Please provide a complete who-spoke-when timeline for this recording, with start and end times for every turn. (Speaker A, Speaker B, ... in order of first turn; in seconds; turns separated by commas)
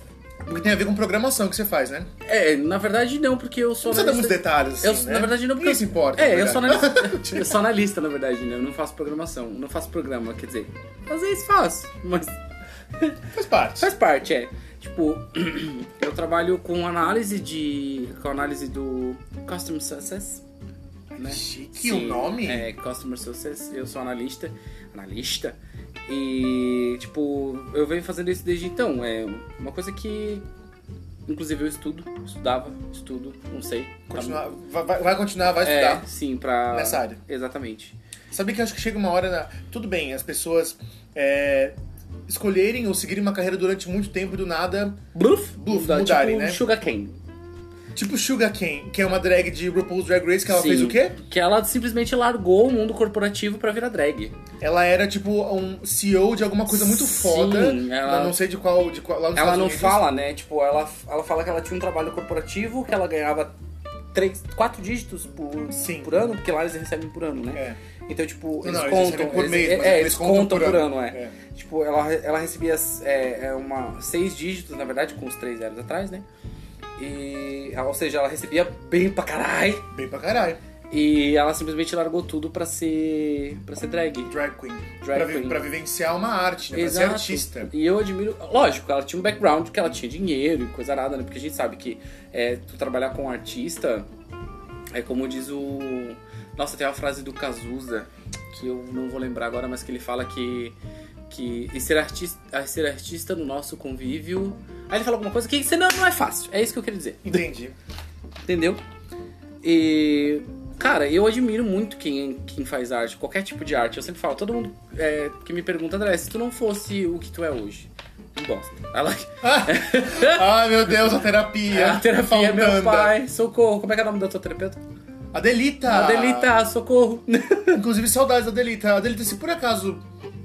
Speaker A: 0.5-2.1, Speaker B: 2.2-12.3, Speaker A: 3.8-7.6, Speaker A: 13.3-13.9, Speaker B: 13.8-20.4, Speaker B: 21.1-25.6, Speaker A: 21.2-22.7, Speaker B: 26.1-30.4, Speaker B: 31.3-34.4, Speaker A: 34.1-36.1, Speaker B: 35.6-38.0, Speaker A: 36.7-37.2, Speaker A: 38.3-41.7, Speaker A: 42.3-45.0, Speaker B: 45.1-47.2, Speaker A: 45.5-46.6, Speaker A: 47.9-51.2, Speaker B: 50.5-54.3, Speaker A: 54.6-60.0, Speaker B: 56.7-58.4, Speaker B: 59.4-63.5, Speaker B: 64.1-76.2, Speaker A: 65.7-66.1, Speaker A: 68.6-71.3, Speaker B: 77.0-79.9, Speaker A: 79.9-80.6, Speaker B: 80.9-84.3, Speaker A: 84.2-87.7, Speaker B: 85.0-85.6, Speaker B: 86.7-94.1, Speaker B: 94.9-100.7, Speaker B: 101.3-107.4, Speaker A: 107.2-107.7, Speaker B: 108.5-108.8, Speaker B: 109.6-120.7, Speaker A: 119.4-123.2, Speaker B: 121.7-124.8, Speaker A: 125.3-126.5, Speaker B: 125.9-127.8, Speaker A: 127.7-130.0